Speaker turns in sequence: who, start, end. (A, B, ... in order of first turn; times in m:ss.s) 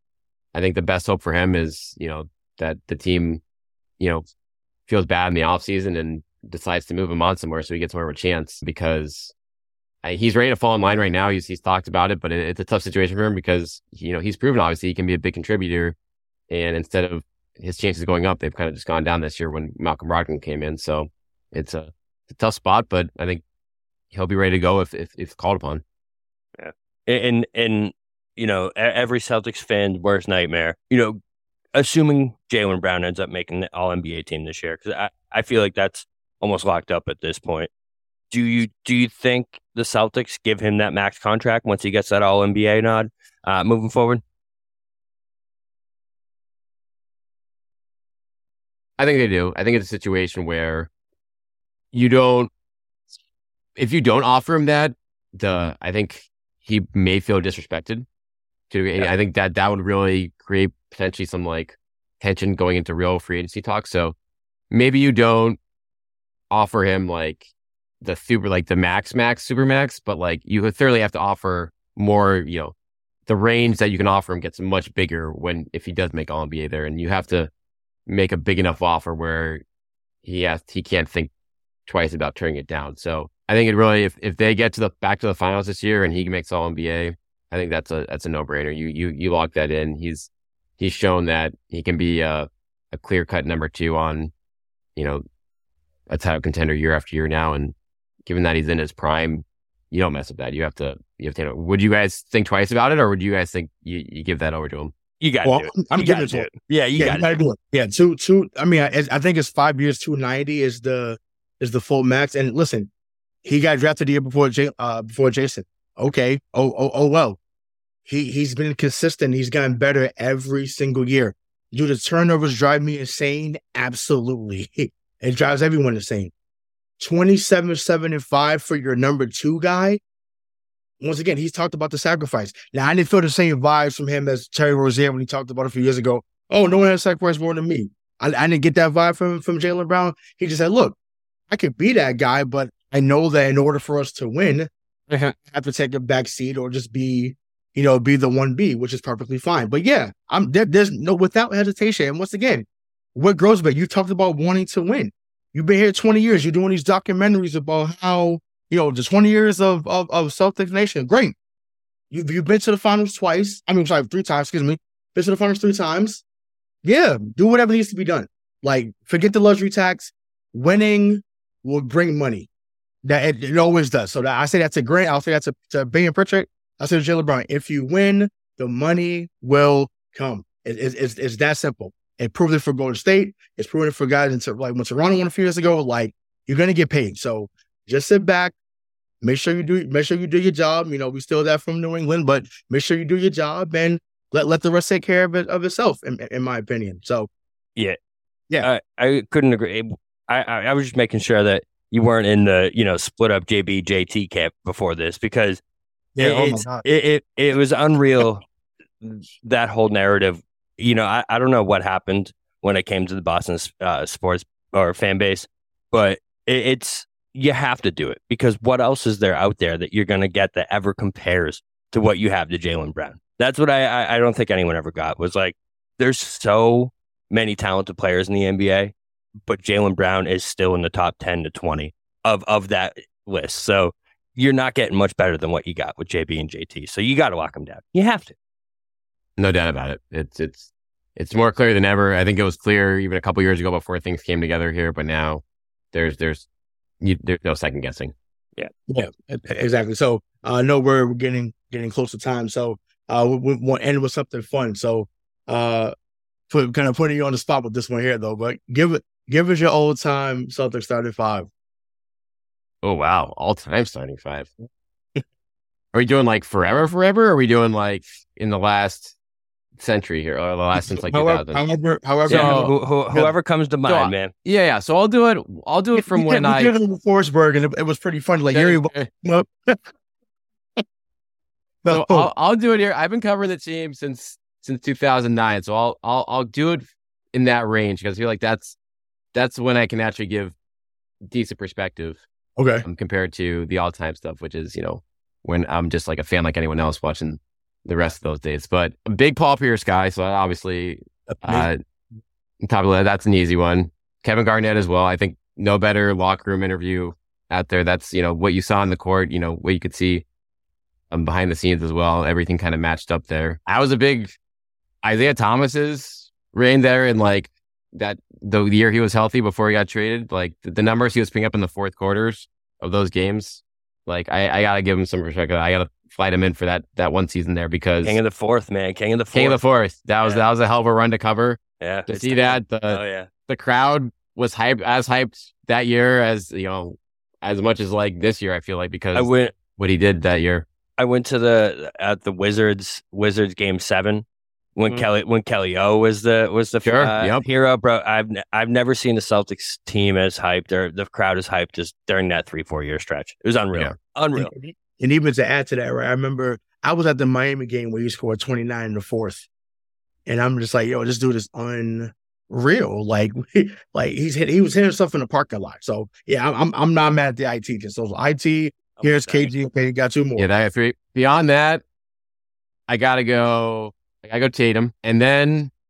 0:00.5-0:03.4 A
0:04.0-0:04.2 A
0:04.9-0:09.3 A
0:10.0-0:15.9 A
0:16.5-0:23.4 A
0:24.1-0:25.8 A
0:26.6-0:31.2 B
0:31.7-0:37.7 B
0:38.3-0:44.2 B
0:49.0-0:50.9 A
0:51.9-0:52.5 A
0:53.8-0:58.0 A
0:58.7-1:04.1 A
1:04.7-1:05.6 A
1:06.5-1:07.5 A
1:08.0-1:12.7 A
1:13.3-1:17.5 A
1:18.1-1:19.6 A
1:20.2-1:21.3 A
1:21.8-1:34.3 A
1:35.0-1:35.2 A
1:36.1-1:37.7 A
1:38.2-1:44.9 A
1:45.2-1:47.3 B
1:45.4-1:52.9 C
1:53.4-1:57.4 C
1:58.0-2:06.3 C
2:07.0-2:10.0 C
2:11.0-2:21.0 C
2:21.5-2:41.3 C
2:42.1-2:46.2 C
2:46.8-2:52.5 C
2:53.0-3:08.5 C
3:09.2-3:17.3 C
3:18.6-3:25.6 B
3:26.2-3:26.8 C
3:26.2-3:28.4 B
3:29.0-3:48.9 B
3:49.4-3:58.3 B
3:59.4-4:06.4 A
4:07.0-4:08.1 A
4:08.9-4:15.9 C
4:16.5-4:21.5 C
4:22.8-4:24.5 A
4:25.9-4:29.1 A
4:29.8-4:31.6 A
4:30.8-4:33.3 C
4:32.2-4:32.7 A
4:32.3-4:34.3 B
4:33.8-4:36.7 A
4:36.0-4:39.9 C
4:38.5-4:39.1 A
4:41.8-4:42.3 C
4:41.9-4:48.7 A
4:49.3-4:50.5 A
4:51.2-4:52.2 A
4:52.6-4:52.8 C
4:52.8-5:01.8 A
5:01.3-5:01.7 C
5:02.6-5:10.2 A
5:11.1-5:14.3 A
5:15.0-5:28.2 A
5:28.0-5:29.6 B
5:29.3-5:40.6 A
5:31.8-5:33.3 B
5:39.1-5:39.5 B
5:41.0-5:44.2 B
5:44.8-5:54.5 B
5:46.8-5:47.4 A
5:54.3-5:59.4 C
6:00.2-6:10.4 C
6:09.0-6:09.5 B
6:10.4-6:11.8 A
6:12.9-6:15.7 A